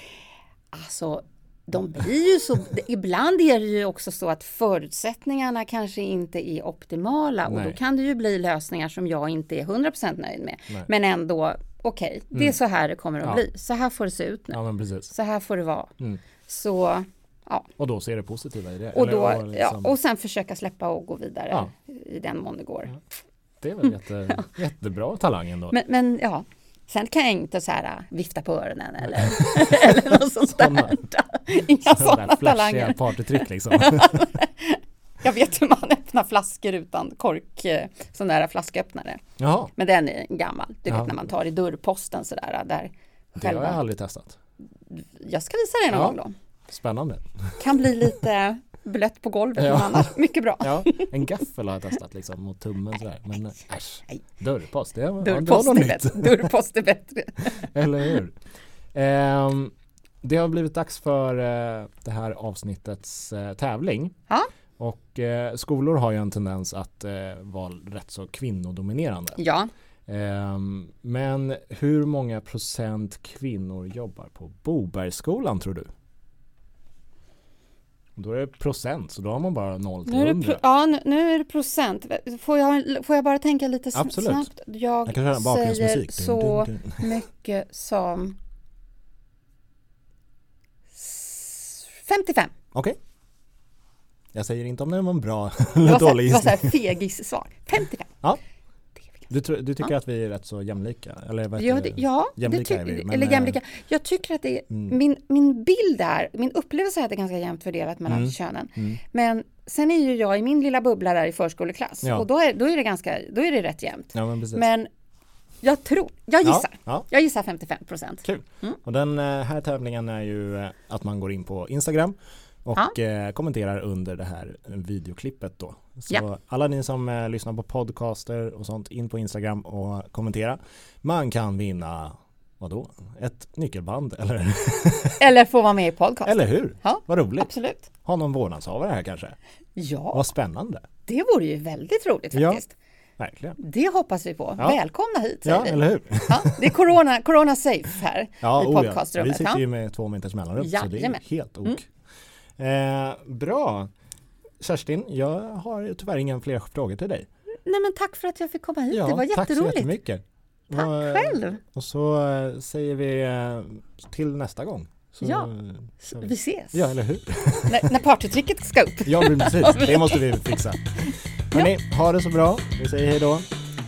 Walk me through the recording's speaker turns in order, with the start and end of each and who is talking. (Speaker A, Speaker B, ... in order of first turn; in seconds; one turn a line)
Speaker A: 0.7-14.6
Speaker B: 7.4-7.8
Speaker B: 14.5-15.1
Speaker A: 15.1-15.9
Speaker A: 16.4-17.7
Speaker B: 17.8-19.9
Speaker A: 18.9-22.9
Speaker B: 23.6-25.8
Speaker A: 25.7-39.2
Speaker B: 29.4-31.0
Speaker B: 31.8-34.3
Speaker B: 39.4-39.7
Speaker A: 39.8-43.8
Speaker B: 40.9-41.1
Speaker B: 43.4-44.4
Speaker A: 44.9-46.3
Speaker B: 45.9-47.6
Speaker A: 47.6-51.1
Speaker B: 49.6-50.1
Speaker B: 50.6-56.5
Speaker A: 55.2-58.2
Speaker B: 57.6-58.3
Speaker B: 58.9-64.1
Speaker B: 64.8-69.4
Speaker A: 69.4-69.7
Speaker B: 70.1-75.9
Speaker B: 78.2-80.6
Speaker A: 80.0-88.4
Speaker B: 83.9-84.5
Speaker B: 85.0-87.1
Speaker A: 91.0-92.5
Speaker B: 94.3-96.8
Speaker A: 95.8-98.1
Speaker B: 99.3-103.6
Speaker A: 101.6-114.9
Speaker B: 108.1-109.0
Speaker B: 114.1-114.7
Speaker A: 115.6-118.8
Speaker B: 116.4-117.0
Speaker B: 118.2-135.2
Speaker A: 135.2-137.9
Speaker B: 136.2-137.5
Speaker B: 138.0-139.3
Speaker A: 139.8-140.3
Speaker B: 140.1-140.8
Speaker A: 141.1-142.7
Speaker B: 142.3-142.6
Speaker B: 143.2-143.6
Speaker A: 143.6-149.6
Speaker B: 145.4-146.8
Speaker B: 148.4-151.8
Speaker A: 150.6-151.8
Speaker B: 152.6-153.9
Speaker B: 154.6-157.3
Speaker A: 157.6-159.9
Speaker B: 158.9-167.9
Speaker A: 160.7-161.6
Speaker A: 165.2-166.9
Speaker A: 167.7-170.6
Speaker B: 169.1-170.8
Speaker B: 171.5-173.4